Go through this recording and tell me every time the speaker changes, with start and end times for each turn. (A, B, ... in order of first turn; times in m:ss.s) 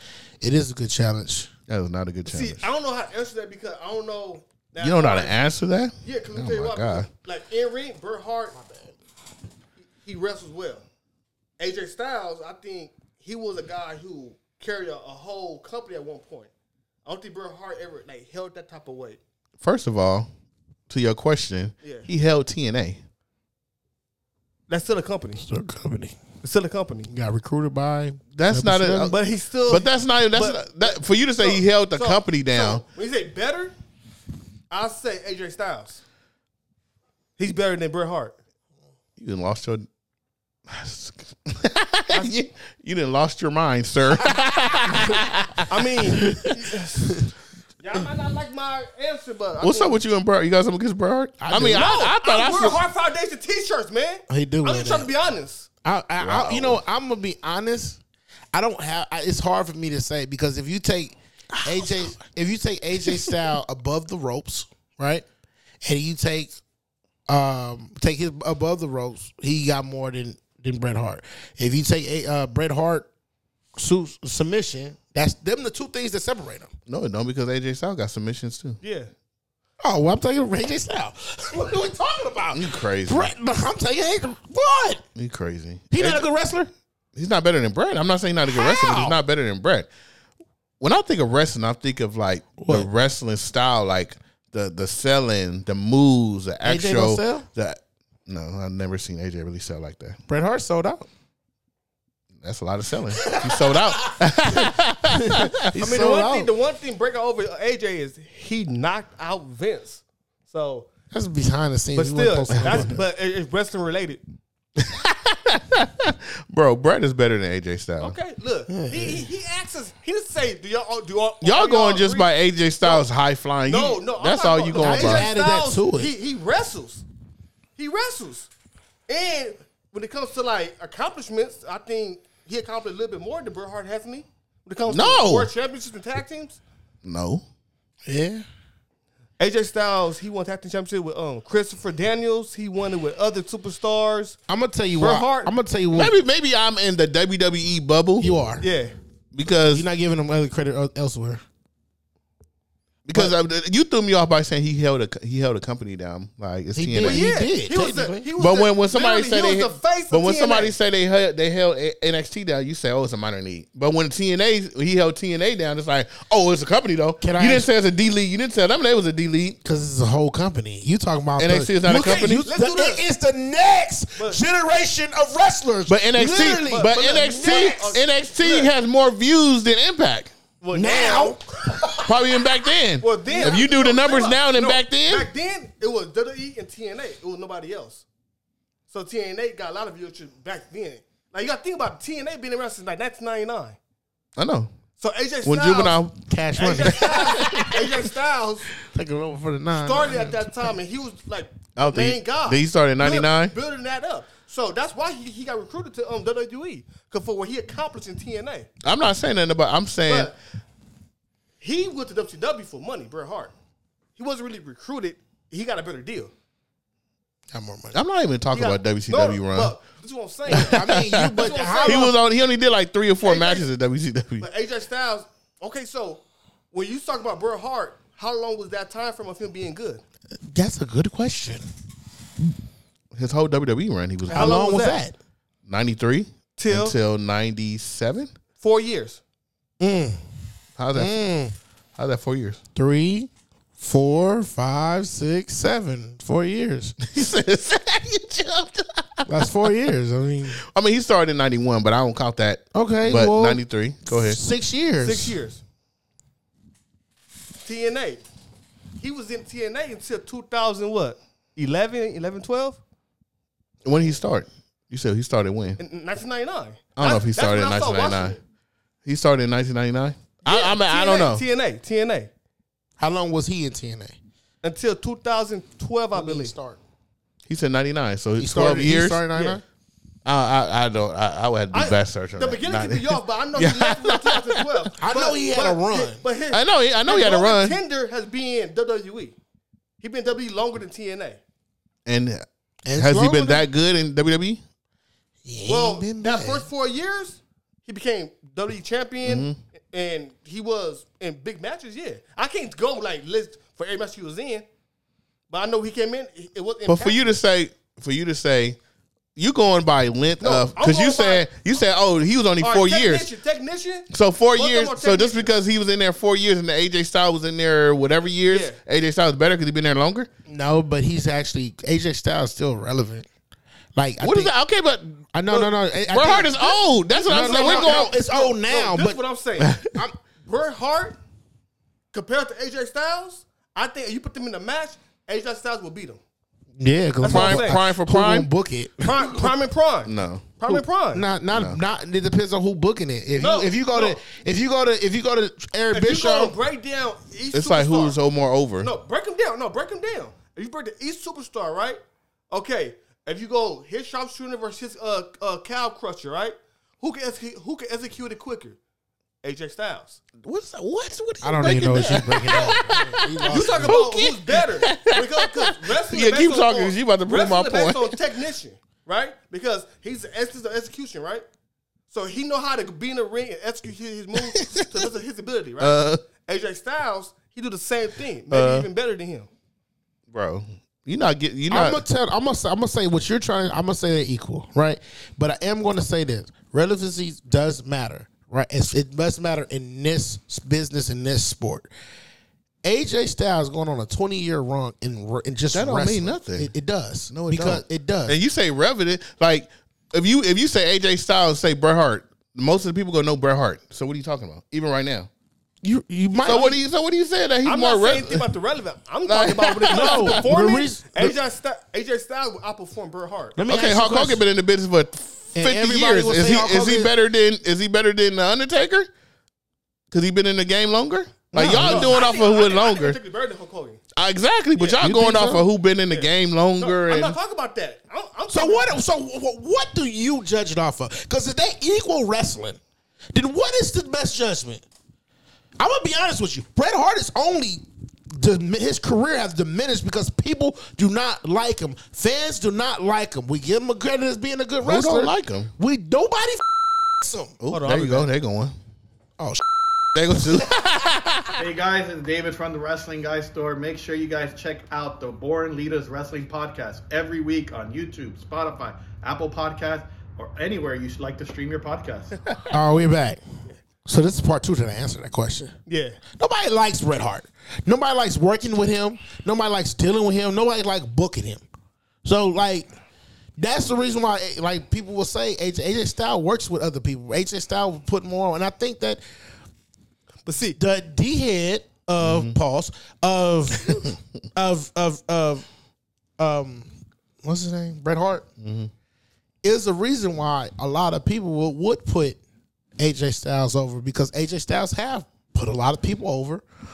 0:00.4-0:01.5 A
0:01.7-0:02.7 B
0:02.2-0:05.4 C
0:04.8-0:07.1 B
0:06.0-0:08.6 C
0:08.5-0:08.9 A
0:10.0-0:10.8 C
0:11.6-0:16.5 C
0:17.0-0:19.2 C
0:19.6-0:20.3 B
0:20.9-0:23.0 B
0:21.8-0:22.1 C
0:24.7-0:25.4 C
0:25.4-0:26.2 A
0:26.4-0:27.1 C
0:27.1-0:29.1 A
0:28.3-0:32.8 B
0:29.0-0:33.7 C
0:34.7-0:36.0 C
0:37.4-0:38.4 C
0:39.2-0:39.9 B
0:40.7-0:46.3 B
0:44.9-0:45.2 A
0:45.7-0:47.2 C
0:46.2-0:46.5 A
0:47.8-0:50.0 C
0:49.6-0:52.8 B
0:51.4-0:51.9 A
0:51.6-0:55.7 C
0:54.3-0:55.1 A
0:55.8-0:58.0 A
0:56.2-0:56.8 B
0:58.5-1:05.2 A
1:05.8-1:06.6 A
1:07.3-1:13.1 A
1:13.8-1:16.7 A
1:16.9-1:18.8 B
1:18.8-1:19.1 C
1:19.8-1:25.0 A
1:22.5-1:23.3 B
1:25.1-1:25.9 B
1:25.9-1:26.7 A
1:27.1-1:29.9 B
1:28.5-1:29.2 A
1:30.8-1:40.2 B
1:32.6-1:32.9 A
1:36.6-1:37.4 A
1:40.3-1:41.1 A
1:42.4-1:45.7 B
1:43.3-1:43.8 A
1:44.5-1:46.5 A
1:45.8-1:50.9 C
1:51.1-1:53.0 A
1:51.9-1:54.2 C
1:54.8-1:58.2 B
1:58.0-2:02.3 C
1:58.7-1:59.3 A
2:01.4-2:05.3 B
2:03.7-2:07.0 C
2:04.8-2:06.1 A
2:07.8-2:08.5 C
2:09.1-2:16.6 C
2:14.9-2:15.5 B
2:17.0-2:17.4 B
2:18.0-2:18.4 A
2:19.4-2:24.4 C
2:24.5-2:26.1 A
2:25.0-2:25.5 C
2:25.9-2:28.3 B
2:28.2-2:28.6 A
2:28.6-2:28.9 C
2:29.3-2:29.8 B
2:29.7-2:31.4 A
2:33.0-2:37.3 B
2:36.7-2:38.3 A
2:37.0-2:40.7 C
2:38.4-2:49.6 B
2:47.2-2:47.7 A
2:49.6-2:57.7 A
2:51.4-2:52.5 B
2:51.9-2:53.0 C
2:55.9-3:00.3 B
2:56.2-2:58.7 C
3:00.6-3:01.4 C
3:00.7-3:02.4 A
3:02.0-3:05.3 B
3:03.0-3:08.0 C
3:03.3-3:03.6 A
3:08.9-3:13.8 C
3:14.4-3:14.7 B
3:15.0-3:16.0 C
3:15.4-3:16.2 B
3:16.3-3:17.7 A
3:16.6-3:18.7 C
3:16.8-3:17.7 B
3:18.9-3:20.7 A
3:19.7-3:28.7 C
3:21.8-3:23.5 B
3:28.8-3:30.3 B
3:30.1-3:30.3 C
3:31.6-3:33.5 C
3:34.2-3:36.3 C
3:37.5-3:38.0 A
3:37.9-3:39.7 B
3:38.5-3:40.8 C
3:40.5-3:42.1 A
3:40.5-3:44.4 B
3:41.4-3:42.1 C
3:43.2-3:43.7 C
3:44.4-3:50.0 C
3:50.4-3:51.7 A
3:53.1-3:54.6 B
3:54.3-3:55.1 A
3:54.3-3:55.0 C
3:55.7-3:58.3 B
3:56.6-3:57.0 C
3:58.6-3:59.2 C
3:59.8-4:00.2 A
4:00.8-4:01.2 B
4:00.9-4:01.5 A
4:02.0-4:02.6 B
4:02.7-4:07.0 A
4:07.0-4:09.4 B
4:09.3-4:10.6 A
4:10.6-4:14.4 B
4:12.7-4:15.3 A
4:15.0-4:15.6 C
4:17.6-4:18.2 C
4:19.0-4:22.8 C
4:23.8-4:25.8 B
4:25.8-4:28.4 C
4:27.0-4:28.4 B
4:29.0-4:31.4 B
4:30.4-4:32.3 C
4:33.0-4:34.2 A
4:34.6-4:36.5 C
4:36.1-4:36.8 A
4:37.5-4:39.2 B
4:38.4-4:39.6 A
4:39.3-4:39.6 C
4:40.2-4:44.6 B
4:41.7-4:49.4 C
4:45.0-4:46.2 A
4:46.5-4:47.8 B
4:50.0-4:51.4 C
4:52.0-4:54.6 B
4:52.8-4:53.6 A
4:55.4-4:56.7 A
4:55.6-5:04.6 C
4:59.2-4:59.6 B
5:05.5-5:07.4 C
5:06.9-5:08.8 B
5:09.4-5:13.3 B
5:10.4-5:11.5 C
5:12.6-5:15.5 C
5:14.1-5:20.3 B
5:18.5-5:18.8 C
5:20.5-5:23.2 A
5:23.9-5:24.5 A
5:24.2-5:25.2 B
5:25.3-5:29.2 A
5:26.1-5:28.1 B
5:27.1-5:29.8 C
5:29.6-5:29.9 B
5:29.9-5:30.2 A
5:30.4-5:31.2 C
5:32.1-5:36.2 C
5:36.8-5:39.5 A
5:37.2-5:37.8 C
5:37.2-5:38.5 B
5:39.0-5:41.3 C
5:40.0-5:40.6 B
5:40.7-5:46.6 A
5:41.5-5:41.8 B
5:43.4-5:44.2 C
5:45.9-5:48.2 C
5:47.5-5:48.9 B
5:48.8-5:58.8 C
5:59.4-6:00.2 C
6:00.4-6:08.2 B
6:01.4-6:04.0 A
6:02.5-6:02.7 C
6:03.5-6:11.4 C
6:12.1-6:19.5 C
6:14.5-6:14.8 B
6:15.8-6:16.2 B
6:18.5-6:18.9 B
6:20.3-6:22.0 B
6:21.7-6:31.9 A
6:32.8-6:38.4 A
6:35.7-6:36.7 B
6:37.3-6:45.3 B
6:45.8-6:46.8 A
6:46.4-6:48.4 B
6:47.6-6:53.6 C
6:49.3-6:50.4 B
6:49.9-6:51.4 A
6:53.6-6:54.4 A
6:53.7-6:59.1 B
6:55.5-6:57.1 A
7:00.1-7:03.2 B
7:01.5-7:02.2 A
7:01.7-7:04.0 C
7:04.1-7:07.4 B
7:05.0-7:05.7 A
7:06.1-7:09.0 C
7:08.5-7:12.8 A
7:13.3-7:14.8 A
7:15.8-7:26.6 A
7:24.8-7:25.7 B
7:27.2-7:27.5 A
7:27.6-7:28.7 B
7:27.7-7:28.3 C
7:30.1-7:31.5 B
7:31.6-7:42.4 D
7:42.7-7:43.4 A
7:44.0-7:45.7 A
7:45.9-7:46.2 C
7:46.4-7:51.6 A
7:52.2-7:52.9 A
7:53.6-7:59.2 A
8:00.4-8:00.8 C
8:00.8-8:05.6 A
8:02.2-8:02.6 B
8:06.4-8:06.9 A
8:07.4-8:08.5 A
8:08.6-8:08.9 B
8:09.6-8:12.4 A
8:13.0-8:16.6 A